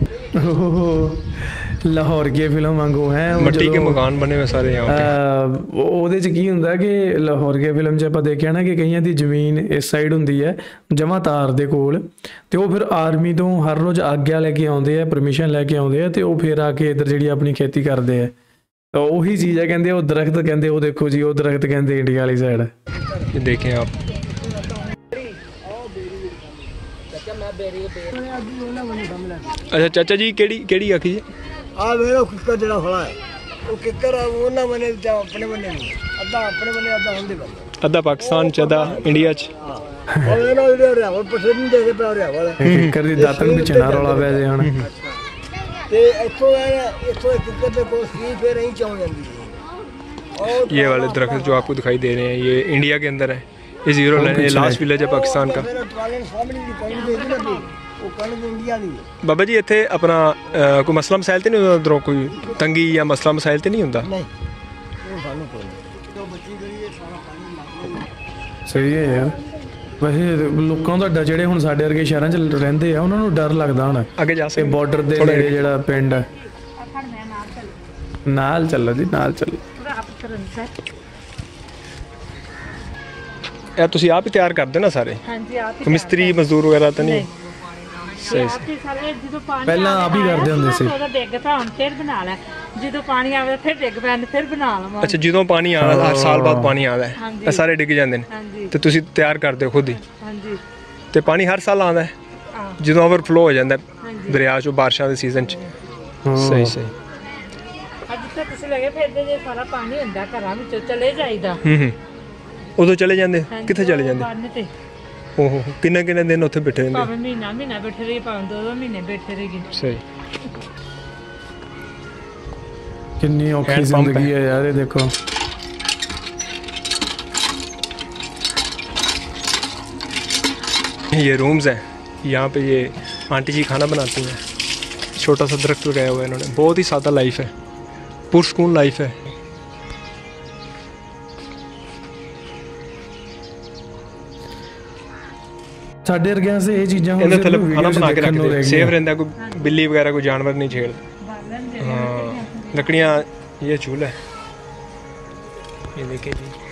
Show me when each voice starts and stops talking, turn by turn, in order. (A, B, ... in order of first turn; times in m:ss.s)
0:00.4-0:04.0 A
0:03.4-0:05.1 B
0:04.9-0:18.3 A
0:18.9-0:22.7 A
0:23.3-0:23.9 B
0:25.6-0:26.5 C
0:27.3-0:29.6 C
0:29.7-0:31.2 B
0:31.7-0:37.6 C
0:37.8-0:39.5 B
0:38.3-0:42.6 C
0:40.1-0:40.4 A
0:42.6-0:44.7 A
0:42.6-0:42.9 B
0:43.2-0:44.4 C
0:44.6-0:44.9 B
0:45.9-0:49.6 C
0:50.3-0:51.6 C
0:50.5-0:55.7 B
0:54.1-0:54.8 A
0:55.0-0:59.0 C
0:57.0-0:57.7 D
0:59.2-1:04.1 B
1:04.0-1:04.3 C
1:05.0-1:08.1 C
1:08.7-1:09.4 A
1:10.0-1:16.2 A
1:14.2-1:15.6 B
1:16.8-1:17.7 D
1:18.2-1:19.6 A
1:19.8-1:20.7 D
1:23.8-1:25.2 B
1:25.2-1:26.4 D
1:25.8-1:27.3 B
1:27.0-1:27.3 D
1:28.2-1:35.2 D
1:28.2-1:28.6 B
1:29.6-1:31.0 A
1:35.0-1:40.0 B
1:35.8-1:36.7 A
1:37.2-1:37.6 D
1:38.3-1:38.7 D
1:40.0-1:40.6 D
1:41.1-1:42.1 B
1:42.8-1:45.6 B
1:44.0-1:44.4 D
1:46.2-1:46.8 A
1:46.4-1:46.9 B
1:48.1-1:51.6 D
1:51.6-1:52.0 B
1:52.8-1:54.3 B
1:53.5-1:54.7 D
1:55.4-1:57.1 B
1:56.9-1:59.7 D
1:59.7-2:00.0 B
2:03.2-2:05.1 A
2:03.6-2:04.3 B
2:11.1-2:14.4 B
2:15.1-2:17.5 B
2:18.3-2:19.2 B
2:26.0-2:28.9 A
2:27.2-2:31.0 B
2:29.4-2:29.7 D
2:31.2-2:33.2 D
2:31.8-2:34.2 B
2:35.9-2:36.5 B